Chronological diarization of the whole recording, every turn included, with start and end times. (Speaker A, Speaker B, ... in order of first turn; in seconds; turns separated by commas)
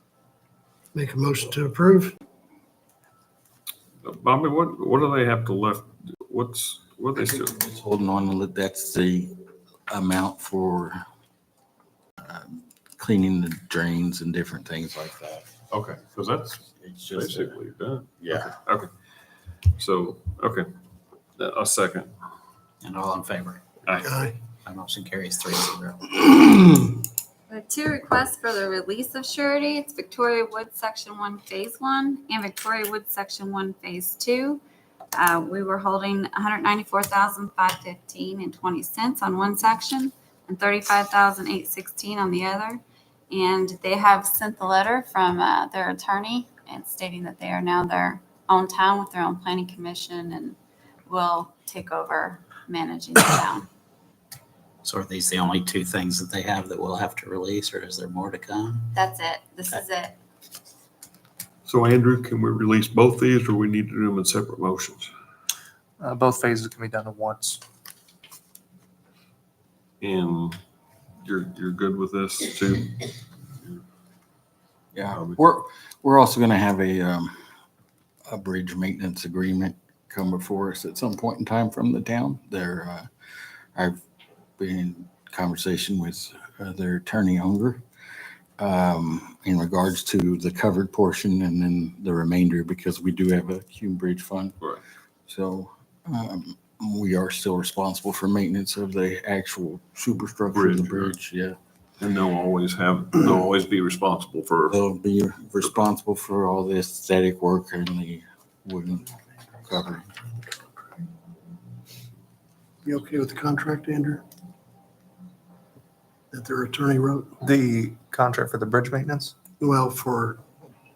Speaker A: 0.9-2.2, Speaker B: 4.0-7.5, Speaker C: 7.3-9.3, Speaker C: 9.9-11.0, Speaker C: 12.2-15.5, Speaker B: 15.7-18.9, Speaker C: 16.8-17.6, Speaker C: 18.2-18.5, Speaker B: 19.7-20.7, Speaker B: 21.4-22.1, Speaker D: 22.8-23.9, Speaker A: 24.0-24.4, Speaker D: 24.6-26.1, Speaker E: 27.5-34.6, Speaker E: 35.1-53.7, Speaker D: 54.8-58.9, Speaker E: 58.9-60.2, Speaker B: 61.7-65.1, Speaker F: 66.0-67.6, Speaker B: 70.0-70.6, Speaker B: 71.2-73.8, Speaker C: 74.9-77.3, Speaker B: 75.1-75.4, Speaker C: 78.3-83.1, Speaker C: 84.6-87.8, Speaker C: 88.6-94.6, Speaker C: 95.3-101.6, Speaker B: 100.5-101.1, Speaker B: 102.0-104.8, Speaker C: 104.7-109.1, Speaker C: 109.7-110.1, Speaker A: 112.8-114.2, Speaker A: 116.3-117.3, Speaker F: 117.4-119.3, Speaker A: 119.6-120.4